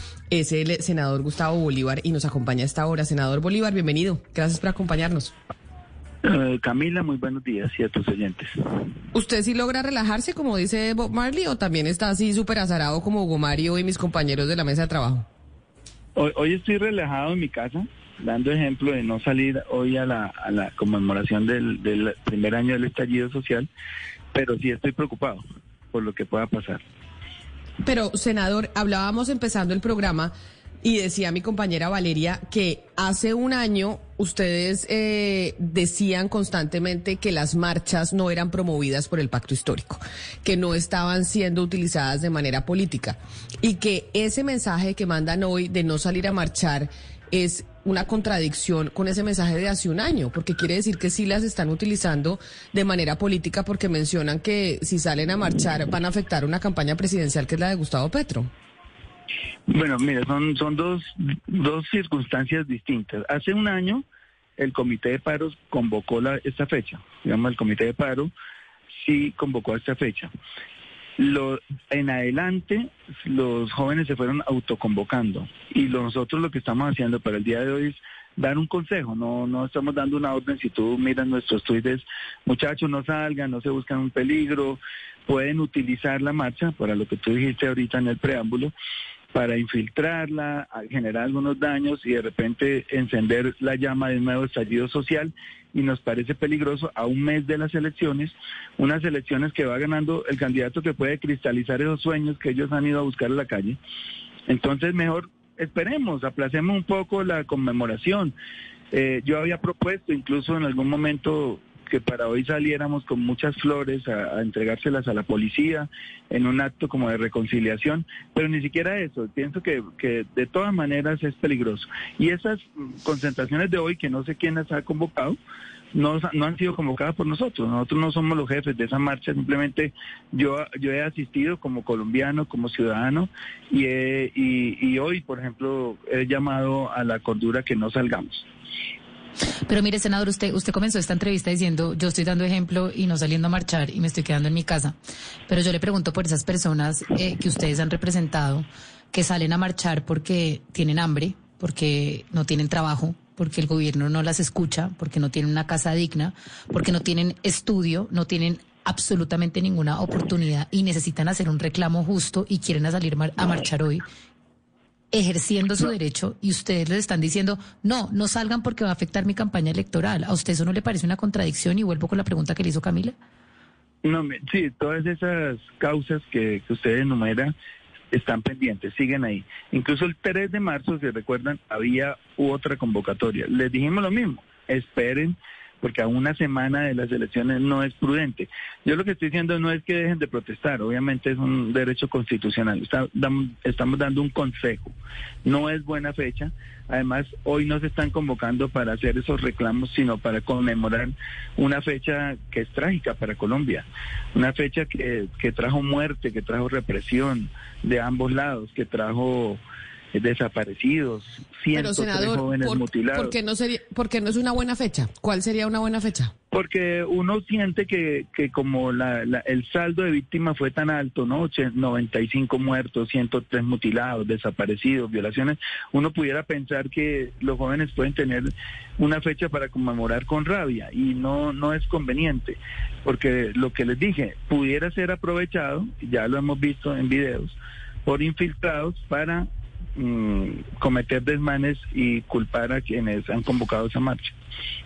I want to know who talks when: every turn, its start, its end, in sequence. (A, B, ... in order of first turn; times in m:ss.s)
0:00.3-0:05.3 A
0:06.2-0:08.5 B
0:09.1-0:15.2 A
0:16.2-0:23.7 B
0:24.3-0:25.4 B
0:25.9-0:26.8 B
0:27.8-0:58.5 A
0:59.7-1:04.0 B
1:04.6-1:08.3 B
1:08.9-1:10.3 B
1:11.2-1:28.7 B
1:29.3-1:43.8 B
1:44.5-1:48.3 B
1:48.9-2:05.4 B
2:05.9-2:18.5 B
2:19.7-2:25.0 C
2:25.5-2:44.0 C
2:45.1-2:53.1 C
2:54.0-2:57.5 B
2:58.1-3:29.6 B
3:30.1-3:33.3 B
3:31.7-3:36.3 A
3:36.5-4:04.3 B